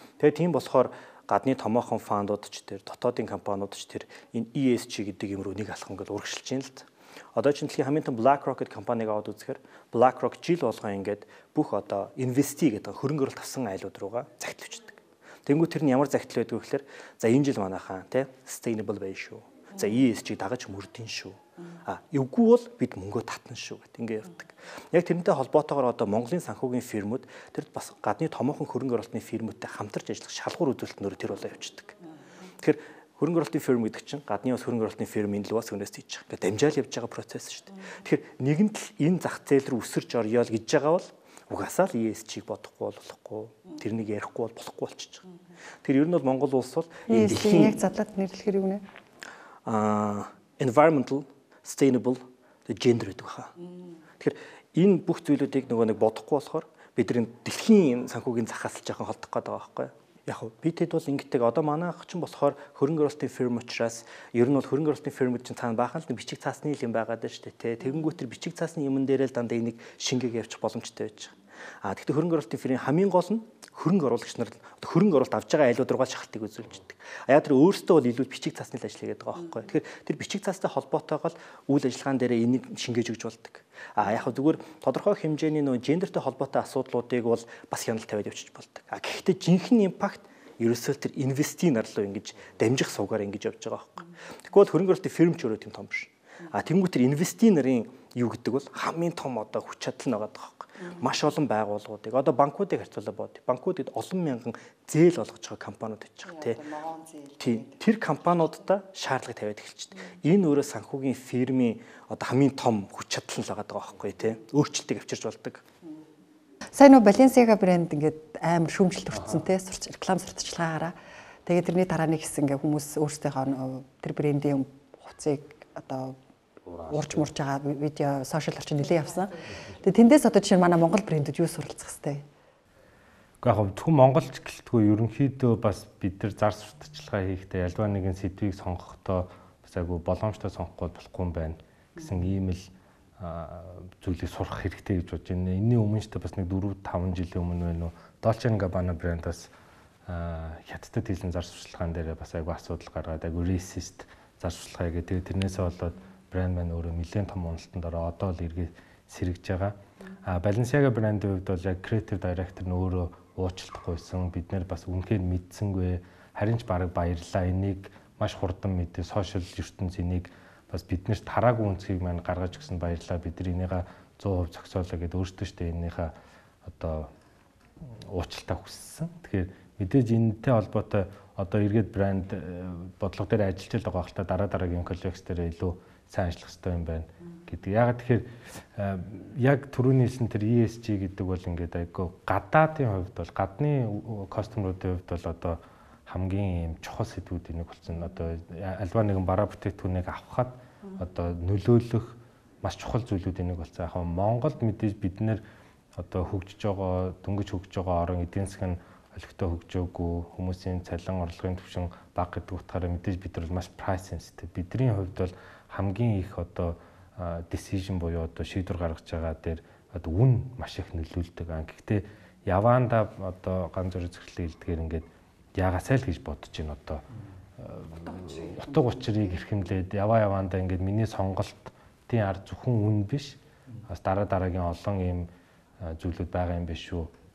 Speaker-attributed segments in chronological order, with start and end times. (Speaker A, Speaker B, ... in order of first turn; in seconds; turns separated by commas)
Speaker A: 0.2-31.9, Speaker A: 32.6-45.2, Speaker A: 45.8-47.8, Speaker B: 47.1-48.8, Speaker A: 49.6-53.5, Speaker A: 54.2-106.6, Speaker B: 106.3-107.7, Speaker A: 107.4-115.6, Speaker B: 116.7-120.9, Speaker B: 121.5-126.2, Speaker C: 126.7-127.2, Speaker B: 126.8-132.2, Speaker C: 133.4-149.5, Speaker C: 150.1-176.1, Speaker C: 176.6-177.1, Speaker C: 177.8-205.4, Speaker C: 205.9-225.1, Speaker C: 225.6-227.0, Speaker C: 227.6-237.1